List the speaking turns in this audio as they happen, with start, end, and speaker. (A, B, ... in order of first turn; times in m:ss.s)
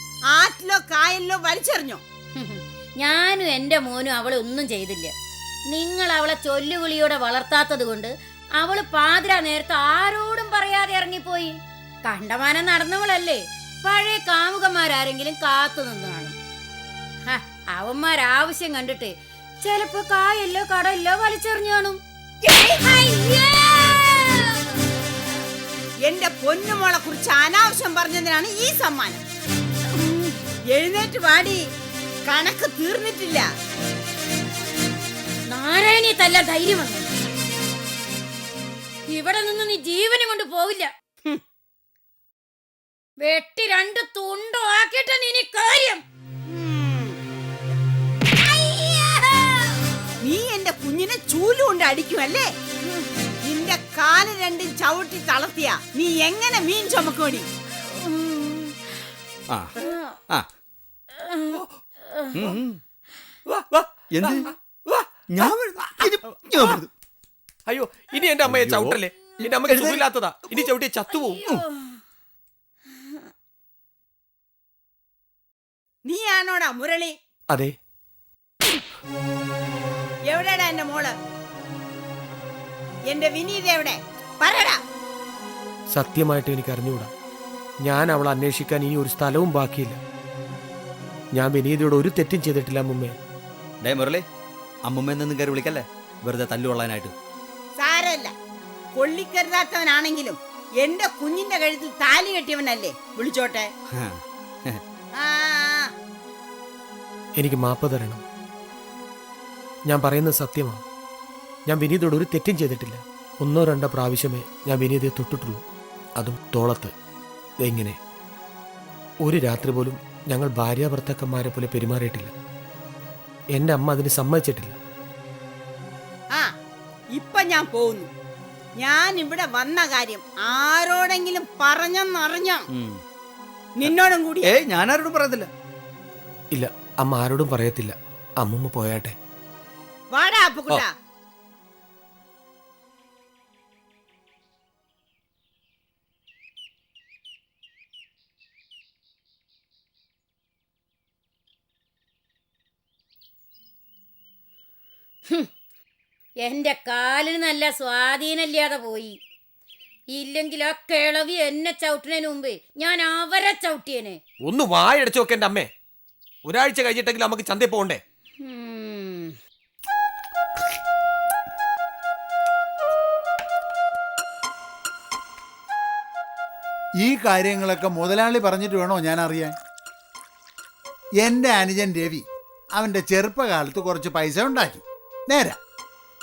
0:00.3-0:02.0 A
0:02.4-0:05.1 B
0:05.7-0:16.4 B
0:17.3-0:24.6 B
0:26.0-0:29.2 A
0:30.1-0:30.4 B
0:30.7-0:31.6 A
0:32.3-0:33.5 A
0:35.5-0:37.1 B
0:39.1-0:40.9 B
0:43.2-0:46.0 B
0:46.5-0:47.2 A
0:48.5-0:49.5 B
0:50.2-0:52.5 A
0:53.5-0:57.5 A
0:59.5-0:59.8 C
1:02.3-1:02.8 C
1:03.5-1:03.9 D
1:04.1-1:04.5 C
1:05.3-1:06.9 C
1:07.7-1:11.5 D
1:08.4-1:09.0 C
1:09.7-1:09.9 C
1:16.0-1:17.2 A
1:20.3-1:21.1 A
1:23.1-1:24.8 A
1:25.9-1:27.1 D
1:27.8-1:30.0 D
1:31.3-1:33.2 D
1:33.8-1:34.3 C
1:34.8-1:37.1 C
1:37.8-1:38.3 A
1:39.0-1:43.7 A
1:43.9-1:44.8 C
1:45.2-1:45.9 A
1:47.4-1:48.2 D
1:49.9-1:50.8 D
1:51.7-1:55.6 D
1:56.2-1:56.9 D
1:57.6-1:58.0 D
1:59.2-2:02.3 D
2:03.5-2:04.8 D
2:07.1-2:08.1 A
2:08.8-2:12.7 A
2:12.7-2:13.0 C
2:13.8-2:14.5 A
2:13.8-2:15.5 C
2:16.5-2:19.2 D
2:20.1-2:20.9 A
2:36.4-2:39.2 B
2:40.1-2:44.2 B
2:44.4-2:45.7 D
2:46.4-2:48.0 D
2:48.4-2:49.4 B
2:57.0-2:59.6 E
3:01.2-3:05.6 E